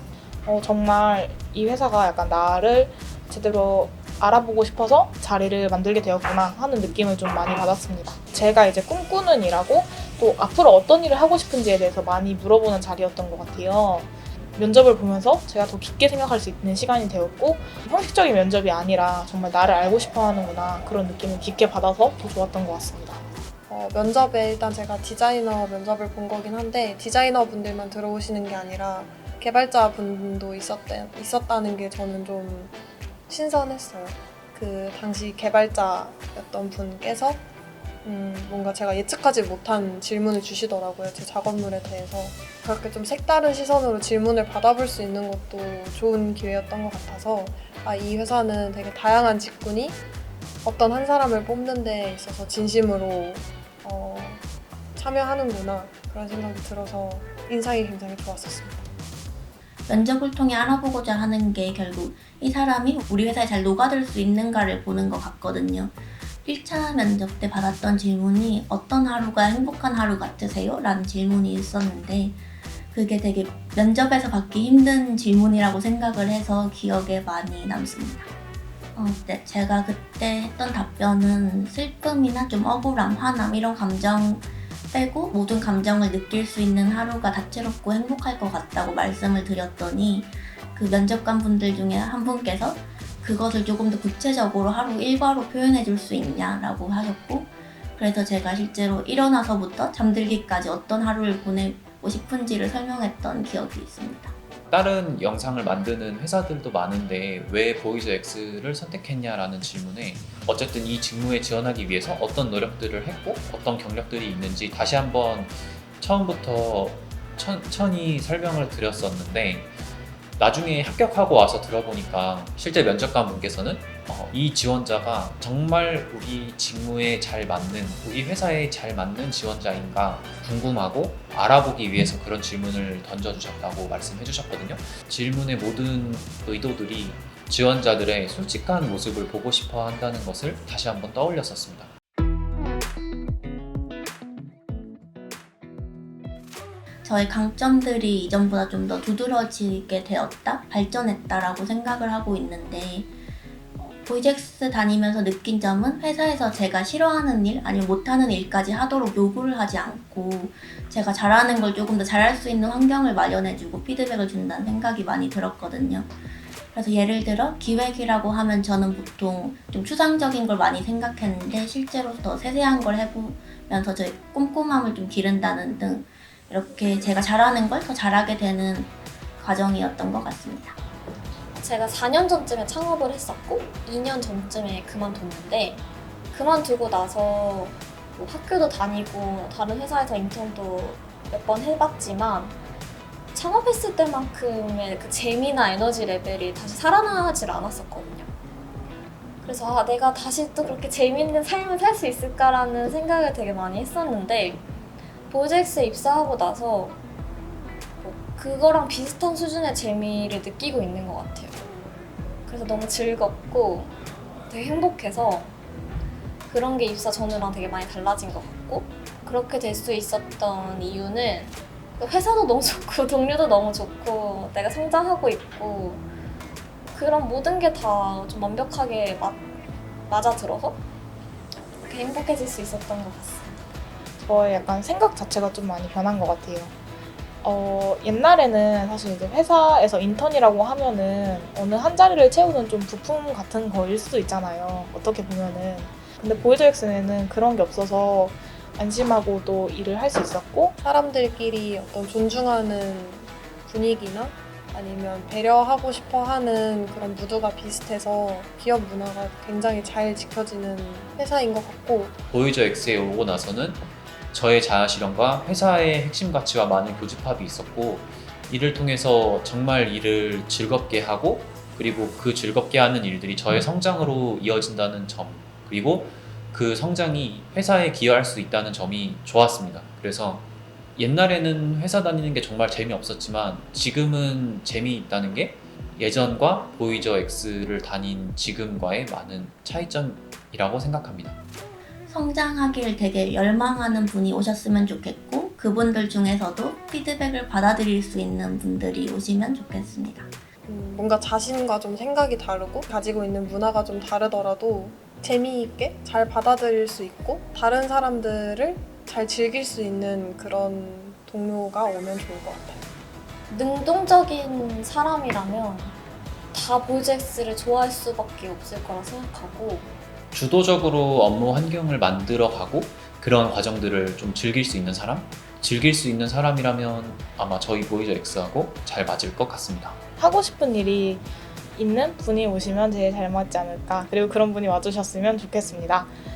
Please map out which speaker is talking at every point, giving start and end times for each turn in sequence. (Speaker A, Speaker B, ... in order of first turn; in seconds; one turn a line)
Speaker A: 0.5-23.2
Speaker B: 23.7-32.7
Speaker B: 33.3-37.4
Speaker B: 38.0-50.0
Speaker B: 50.6-54.4
Speaker B: 54.9-58.9
Speaker C: 59.9-72.4
Speaker C: 72.9-78.3
Speaker C: 79.0-104.3
Speaker D: 104.7-119.7
Speaker D: 120.4-141.9
Speaker C: 147.0-153.1
Speaker C: 153.8-166.1
Speaker C: 166.7-180.8
Speaker E: 181.5-192.6
Speaker E: 193.3-198.3
Speaker E: 199.4-204.6
Speaker E: 205.3-207.0
Speaker E: 208.0-211.6
Speaker E: 212.4-213.9
Speaker E: 214.5-215.5
Speaker E: 216.5-226.1
Speaker E: 226.9-229.4
Speaker E: 230.1-230.8
Speaker E: 231.8-233.6
Speaker A: 234.2-236.7
Speaker A: 237.4-250.7
Speaker B: 250.8-262.1
Speaker D: 262.3-291.4
Speaker C: 292.1-300.3
Speaker B: 300.6-312.9
Speaker E: 313.5-316.0
Speaker E: 316.5-319.9
Speaker D: 320.3-330.0
Speaker A: 330.2-336.1